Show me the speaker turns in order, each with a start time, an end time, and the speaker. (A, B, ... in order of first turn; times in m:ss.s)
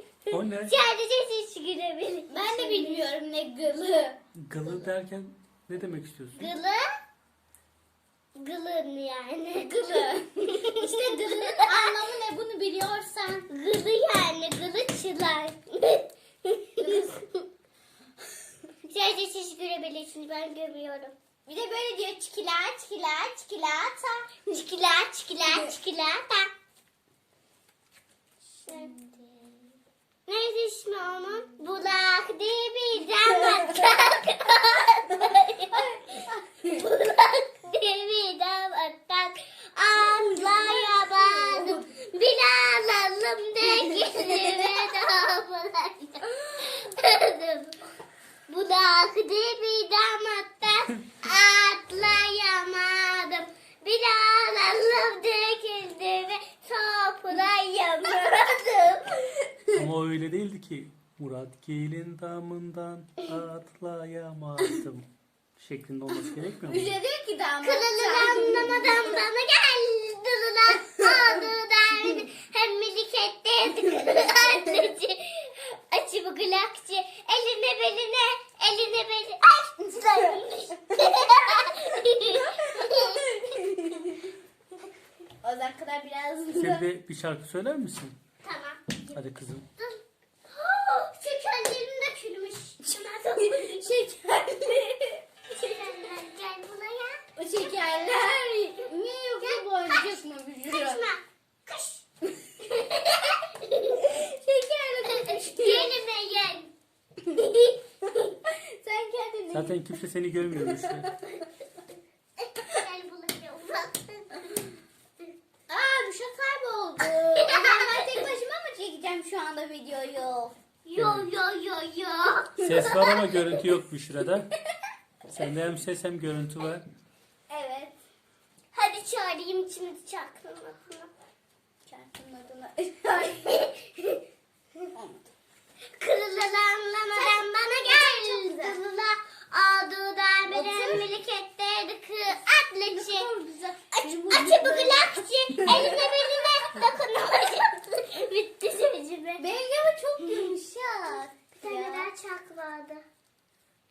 0:00.3-0:00.7 A
0:00.3-0:03.0 B
0:02.3-0:04.2 C
0:04.3-0:06.5 A
0:06.3-0:06.9 B
0:08.3-0:11.8 B
0:09.6-0:13.5 C
0:13.5-0:17.4 B
0:16.8-0:17.1 C
0:18.8-0:21.1 B
0:21.4-0:24.5 C
0:24.5-0:26.5 B
0:28.6-0:29.8 C
0:28.6-0:28.9 B
0:30.2-0:47.8 B
0:35.7-0:36.8 C
0:40.0-0:41.8 C
0:43.8-0:44.7 C
0:48.5-0:59.4 B
0:59.7-1:07.0 A
1:06.1-1:09.1 C
1:07.6-1:23.6 B
1:21.0-1:21.2 C
1:22.3-1:24.3 C
1:25.4-1:26.8 C
1:26.5-1:28.2 A
1:28.4-1:29.2 B
1:29.1-1:29.7 A
1:29.8-1:34.0 B
1:32.9-1:35.1 C
1:35.5-1:37.7 B
1:37.4-1:41.0 C
1:39.4-1:42.0 B
1:42.6-1:44.1 B
1:44.0-1:46.0 C
1:45.1-1:46.7 B
1:47.2-1:48.1 B
1:48.4-1:49.9 C
1:49.5-1:51.1 A
1:50.5-1:51.4 C
1:52.4-1:54.7 B
1:55.7-2:00.5 C
1:57.3-1:58.3 B
2:00.8-2:03.2 B
2:01.0-2:01.3 A
2:02.6-2:03.4 C
2:02.6-2:04.5 A
2:05.2-2:06.8 A
2:07.5-2:08.0 C
2:08.7-2:11.1 B
2:11.8-2:13.8 C
2:13.5-2:14.1 B
2:14.9-2:15.3 C
2:16.0-2:23.3 B
2:17.1-2:18.8 C
2:20.5-2:21.0 C
2:22.9-2:26.3 C
2:24.0-2:29.4 B
2:29.4-2:32.1 C
2:31.6-2:33.0 B